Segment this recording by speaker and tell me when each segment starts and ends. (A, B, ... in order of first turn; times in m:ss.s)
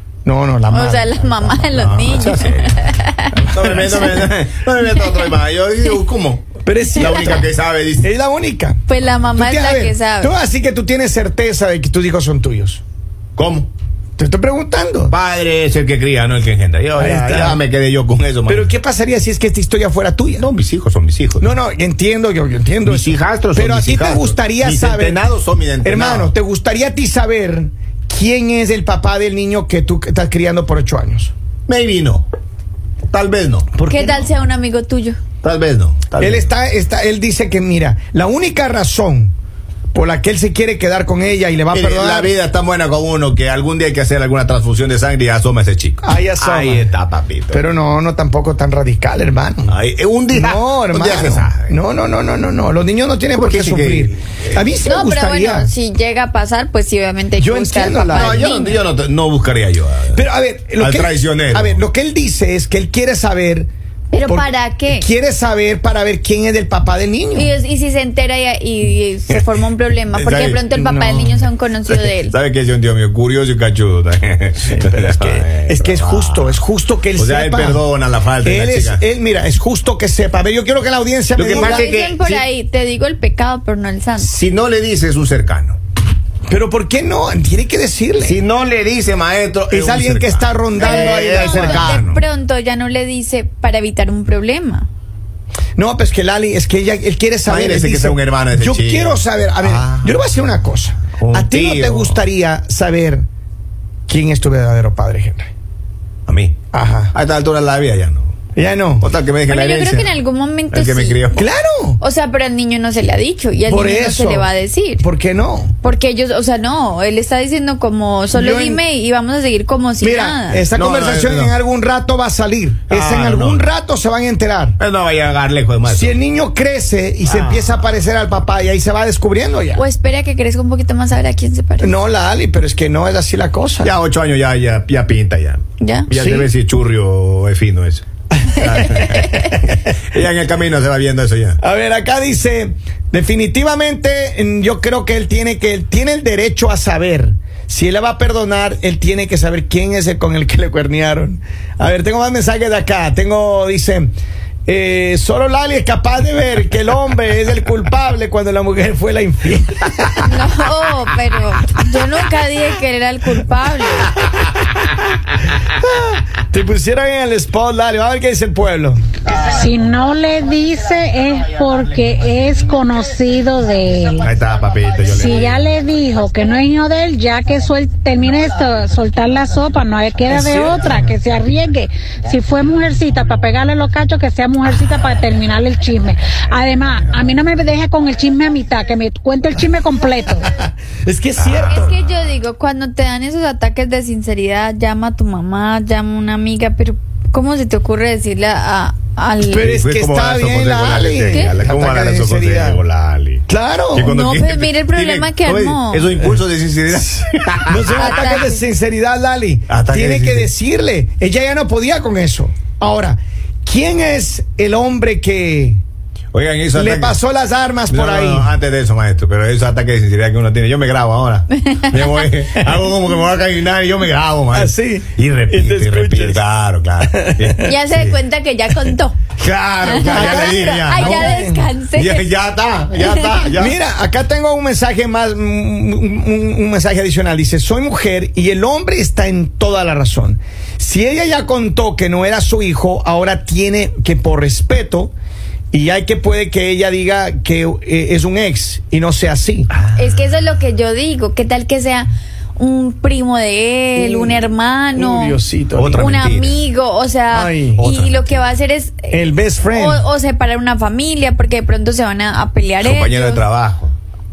0:00.2-0:02.1 A
0:00.7-0:04.1 B
0:01.7-0:08.1 C
0:03.6-0:04.2 A
0:05.0-0:05.3 B
0:06.6-0:07.5 A
0:06.9-0:07.4 B
0:08.0-0:08.8 A
0:08.9-0:10.3 B
0:09.3-0:12.8 A
0:13.4-0:13.7 C
0:14.2-0:15.1 A
0:15.1-0:18.7 C
0:17.0-0:17.6 A
0:18.5-0:20.5 A
0:20.4-0:21.5 C
0:21.4-0:25.2 A
0:22.8-0:26.3 C
0:25.8-0:31.3 A
0:31.7-0:32.2 C
0:33.1-0:33.7 C
0:33.7-0:34.3 A
0:33.9-0:35.2 B
0:35.4-0:36.5 C
0:36.2-0:39.3 A
0:39.9-0:42.3 A
0:41.7-0:47.6 C
0:46.0-0:46.9 A
0:47.5-0:49.7 A
0:49.7-0:51.7 C
0:50.3-0:55.7 A
0:53.3-0:54.6 C
0:54.8-0:58.8 B
0:57.4-0:58.4 A
0:58.1-1:00.2 C
1:00.1-1:03.7 A
1:00.8-1:01.8 C
1:04.1-1:05.1 B
1:04.2-1:07.6 A
1:07.3-1:12.3 B
1:10.2-1:10.6 C
1:10.7-1:11.5 A
1:11.8-1:16.6 C
1:14.6-1:17.8 A
1:17.1-1:19.0 C
1:18.4-1:21.9 A
1:21.4-1:22.4 C
1:21.5-1:24.3 B
1:24.2-1:25.8 C
1:26.5-1:28.4 A
1:28.2-1:32.2 C
1:29.7-1:32.0 A
1:30.8-1:34.9 B
1:35.8-1:43.2 A
1:37.5-1:40.2 C
1:41.2-1:42.2 C
1:44.1-1:45.5 A
1:46.3-1:46.6 C
1:46.7-1:47.1 A
1:47.1-1:48.3 C
1:48.6-1:49.1 A
1:49.0-1:50.1 C
1:49.5-1:51.2 B
1:50.7-1:51.4 C
1:51.3-1:52.0 A
1:52.0-1:55.0 B
1:53.7-1:55.7 A
1:55.8-2:00.7 B
1:58.3-1:58.8 A
2:00.0-2:04.8 A
2:00.7-2:01.5 C
2:02.9-2:03.7 C
2:04.8-2:06.2 C
2:05.8-2:09.8 A
2:07.2-2:07.9 C
2:09.7-2:12.0 B
2:11.8-2:13.9 A
2:13.8-2:21.6 C
2:15.8-2:16.1 B
2:16.1-2:16.5 A
2:18.5-2:19.6 A
2:18.8-2:19.4 B
2:21.6-2:34.1 A
2:34.6-2:40.3 A
2:40.2-2:44.2 B
2:45.9-2:49.0 A
2:49.3-2:54.3 D
2:54.2-2:55.6 C
2:55.0-3:10.4 D
3:00.3-3:00.9 C
3:10.4-3:11.9 A
3:11.4-3:12.1 C
3:11.7-3:19.8 B
3:19.5-3:22.8 A
3:19.5-3:28.4 C
3:21.2-3:21.5 B
3:23.5-3:24.1 A
3:24.1-3:26.1 B
3:27.7-3:35.8 A
3:28.0-3:28.6 B
3:29.7-3:30.5 C
3:36.3-3:37.2 C
3:36.7-3:38.5 A
3:37.9-3:48.1 C
3:41.6-3:41.9 B
3:44.5-3:46.4 A
3:47.0-3:47.7 A
3:47.6-3:49.2 B
3:49.4-3:51.4 C
3:49.8-3:52.2 B
3:50.1-3:51.7 A
3:51.9-3:53.8 C
3:53.0-3:53.4 B
3:53.5-4:05.1 A
4:05.7-4:09.7 A
4:09.8-4:10.0 C
4:10.0-4:15.4 B
4:13.9-4:16.2 A
4:15.7-4:16.6 C
4:15.9-4:23.4 B
4:17.3-4:17.9 A
4:17.8-4:18.4 C
4:19.1-4:20.0 A
4:22.8-4:23.9 C